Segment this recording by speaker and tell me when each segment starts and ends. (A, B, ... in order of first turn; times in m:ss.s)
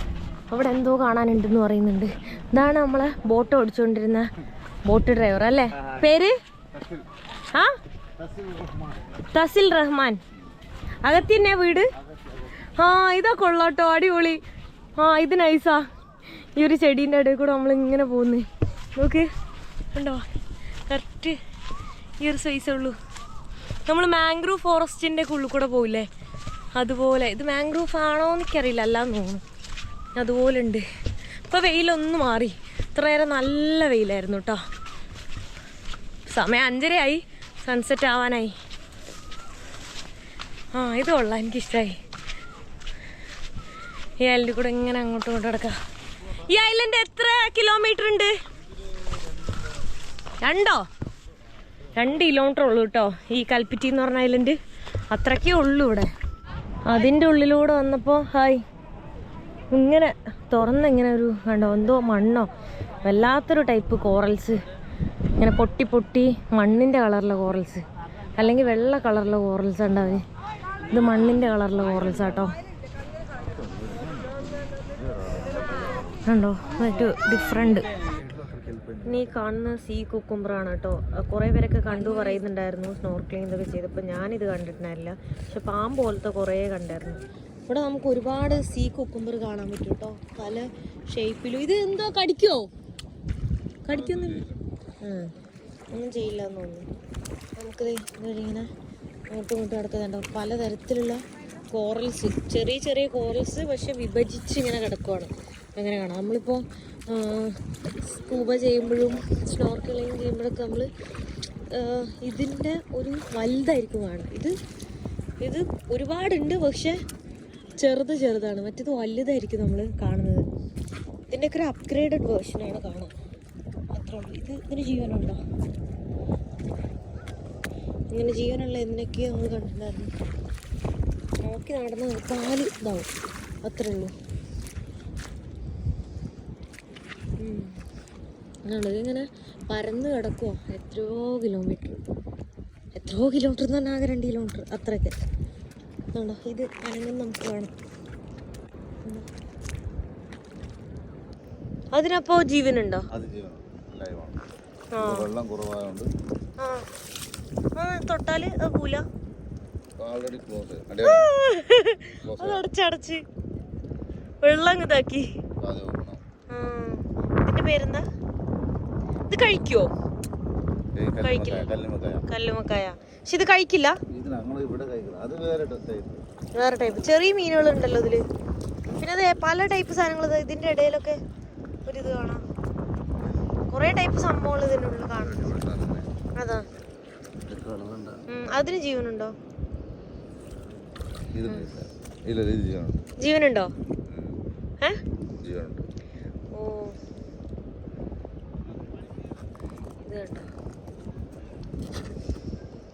0:00.5-0:04.3 A
0:04.9-0:06.4 A
0:09.3-0:10.2 A
0:11.0-0:11.9 A
0:12.8-0:14.4 A
0:15.0-0:15.8 A
0:16.6-0:19.3 A
0:19.9-0:20.2 A
0:20.9-0:21.4 A
0:22.2-0:23.0 A
0:23.9-0:26.1 A
0:26.7-0:29.4 A
0:30.2-0:30.8 A
0:31.5-0:34.6 A
0:36.3-0:38.5 A
0:40.7-0:42.0 A
0:44.2-0:45.7 A
0:46.2-0:48.3 A
0:50.4-0:50.8 A
0:52.0-0:54.6 A
0:55.1-0:56.1 A
0:56.8-0:58.6 A
0:59.7-1:02.5 A
1:03.0-1:04.6 A
1:05.4-1:07.8 A
1:08.4-1:10.2 A
1:10.9-1:12.5 A
1:13.4-1:16.2 B
1:16.2-1:17.9 A
1:19.0-1:32.7 A
1:33.8-1:34.5 A
1:33.9-1:34.6 B
1:35.0-1:35.3 A
1:35.9-1:36.9 A
1:37.6-1:38.7 A
1:39.3-1:50.9 A
1:51.7-1:54.6 A
1:55.4-1:57.0 A
1:57.7-2:00.5 A
2:01.3-2:03.1 A
2:03.9-2:05.4 A
2:08.1-2:10.1 A
2:11.4-2:13.1 A
2:13.6-2:14.1 A
2:17.4-2:17.8 A
2:18.7-2:22.0 A
2:22.9-2:25.2 A
2:26.1-2:27.7 A
2:31.9-2:33.1 A
2:33.1-2:34.4 B
2:34.9-2:35.3 A
2:35.0-2:36.1 B
2:36.6-2:36.9 A
2:37.8-2:39.0 A
2:40.0-2:41.3 B
2:41.0-2:43.2 A
2:42.2-2:42.6 B
2:44.4-2:45.3 A
2:45.6-2:46.2 B
2:46.5-2:48.0 A
2:49.3-2:49.9 A
2:50.9-2:52.2 B
2:51.2-2:54.0 A
2:54.1-2:56.2 B
2:56.6-2:58.2 A
2:58.9-3:01.2 A
3:01.8-3:02.4 A
3:03.7-3:05.5 A
3:05.2-3:06.1 B
3:06.4-3:06.6 A
3:07.4-3:08.2 B
3:08.3-3:09.3 A
3:11.3-3:13.0 B
3:13.2-3:13.7 A
3:14.1-3:14.4 B
3:15.4-3:15.9 B
3:16.5-3:17.0 A
3:20.0-3:20.5 A